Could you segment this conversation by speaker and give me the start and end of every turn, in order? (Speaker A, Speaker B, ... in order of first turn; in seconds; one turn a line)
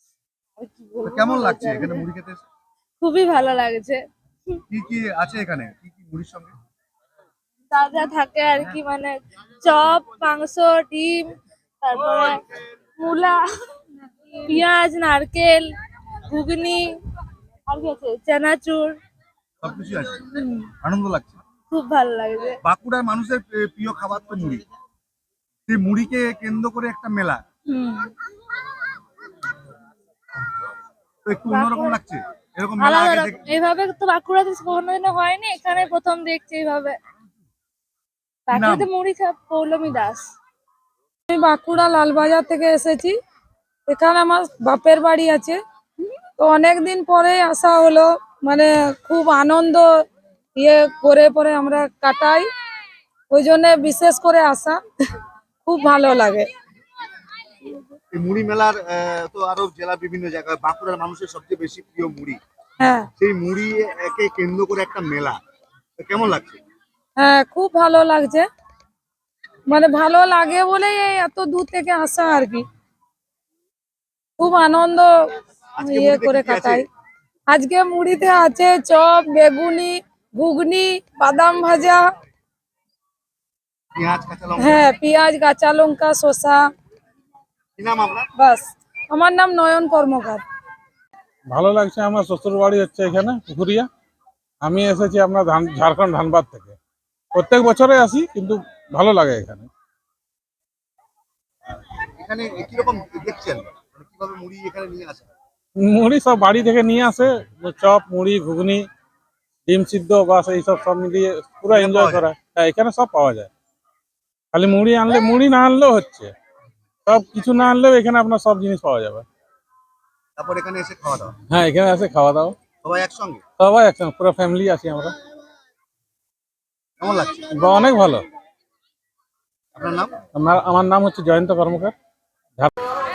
Speaker A: 0.6-2.0
Speaker B: 1.0-2.4
Speaker A: 3.0-4.0
Speaker B: 4.7-6.5
Speaker A: 7.7-12.4
Speaker A: 13.0-13.4
Speaker A: 14.4-15.7
Speaker A: 16.3-16.9
Speaker A: 17.7-18.9
Speaker B: 19.6-21.4
Speaker A: 20.4-20.7
Speaker A: 21.7-22.6
Speaker B: 22.6-24.6
Speaker B: 25.7-27.4
Speaker A: 27.7-28.1
Speaker B: 31.2-33.4
Speaker A: 31.5-32.0
Speaker A: 32.8-37.0
Speaker A: 38.5-40.2
Speaker B: 38.5-38.9
Speaker C: 41.3-43.1
Speaker C: 43.9-45.6
Speaker C: 46.4-49.9
Speaker C: 50.6-52.5
Speaker C: 53.3-54.8
Speaker C: 55.6-56.5
Speaker B: 58.1-62.4
Speaker C: 62.8-63.1
Speaker B: 63.2-65.4
Speaker B: 66.0-66.6
Speaker C: 67.2-68.5
Speaker C: 69.7-72.6
Speaker C: 74.4-75.1
Speaker B: 75.8-76.8
Speaker C: 75.8-76.8
Speaker C: 77.5-82.0
Speaker B: 84.0-84.9
Speaker C: 84.6-86.6
Speaker B: 87.8-88.3
Speaker C: 88.4-90.4
Speaker D: 91.5-93.9
Speaker D: 94.6-96.8
Speaker D: 97.3-99.7
Speaker B: 102.2-105.3
Speaker D: 105.8-108.8
Speaker D: 109.7-113.5
Speaker B: 111.7-112.2
Speaker D: 114.5-116.3
Speaker D: 117.0-119.2
Speaker B: 120.4-121.3
Speaker D: 121.5-122.5
Speaker B: 122.8-123.4
Speaker D: 123.6-125.1
Speaker B: 127.0-127.5
Speaker D: 127.5-128.2
Speaker B: 129.7-130.2
Speaker D: 130.3-131.9